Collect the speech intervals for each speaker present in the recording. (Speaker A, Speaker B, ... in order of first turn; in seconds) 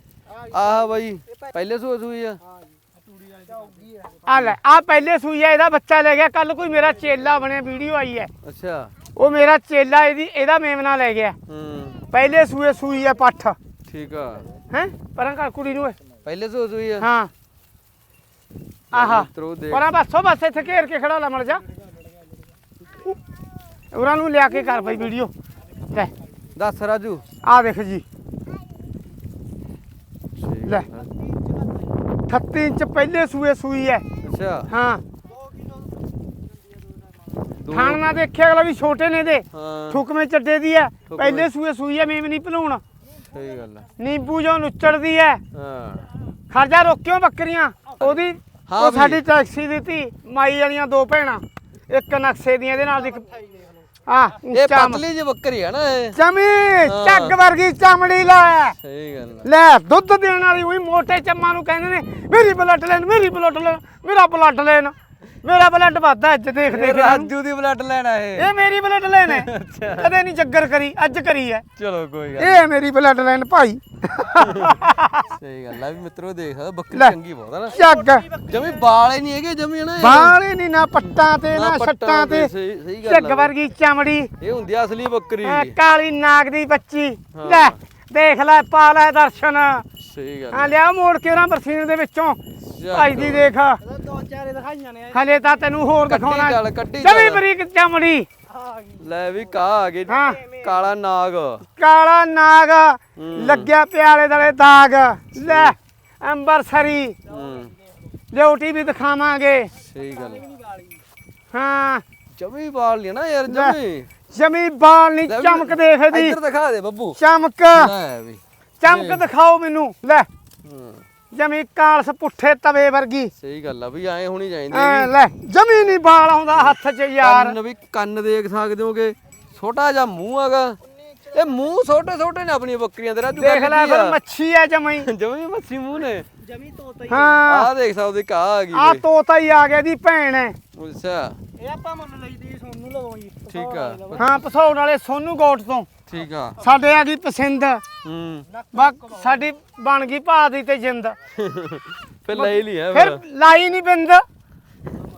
Speaker A: 0.3-1.6, 2.5-4.3, 31.2-31.9, 35.3-36.2, 37.0-37.4, 52.9-53.9, 77.7-78.9, 93.8-95.7, 98.5-100.9, 107.3-108.1, 109.9-111.0, 130.8-131.9, 136.4-137.4, 141.6-144.4, 148.5-149.5
Speaker B: 0.5-2.4, 4.3-4.6, 8.4-8.9, 11.5-12.0, 13.9-14.5, 16.2-17.1, 18.9-19.9, 26.6-27.2, 30.4-31.1, 34.2-34.7, 37.6-38.2, 39.5-40.0, 41.1-41.5, 43.2-43.9, 45.5-46.1, 48.0-49.2, 54.5-56.2, 56.8-57.4, 58.8-59.5, 66.7-68.5, 69.2-70.1, 71.8-72.7, 74.4-77.8, 78.5-80.4, 81.4-83.5, 84.4-85.8, 87.3-87.8, 90.0-90.8, 92.6-93.5, 96.1-97.4, 99.0-101.6, 103.2-103.7, 105.4-105.8, 107.3-107.7, 109.8-110.4, 112.3-114.1, 115.3-117.2, 117.7-119.2, 120.6-121.0, 123.3-125.1, 126.5-130.8, 131.3-134.2, 135.0-136.3, 137.4-139.1, 140.7-141.4, 143.5-144.3, 146.1-146.6, 148.0-148.5, 151.3-153.2
Speaker C: 4.3-8.3, 9.2-11.4, 12.1-13.6, 14.7-16.0, 17.0-17.3, 18.9-21.6, 23.9-25.3, 27.4-28.1, 32.3-34.0, 34.7-35.0, 37.7-42.8, 44.0-45.4, 46.5-53.3, 54.1-55.0, 56.1-58.8, 59.4-67.3, 68.4-71.7, 72.4-75.3, 77.7-78.3, 80.0-82.5, 83.0-84.3, 85.4-89.9, 90.5-92.4, 92.9-93.8, 95.1-98.3, 100.1-100.4, 101.8-107.2, 108.3-109.7, 111.5-112.0, 113.5-113.8, 114.3-116.4, 117.2-117.9, 118.8-120.3, 121.3-123.3, 124.7-127.6, 133.4-135.1, 137.1-137.7, 138.7-140.6, 144.2-145.9, 146.6-147.8, 148.7-151.2, 152.3-154.2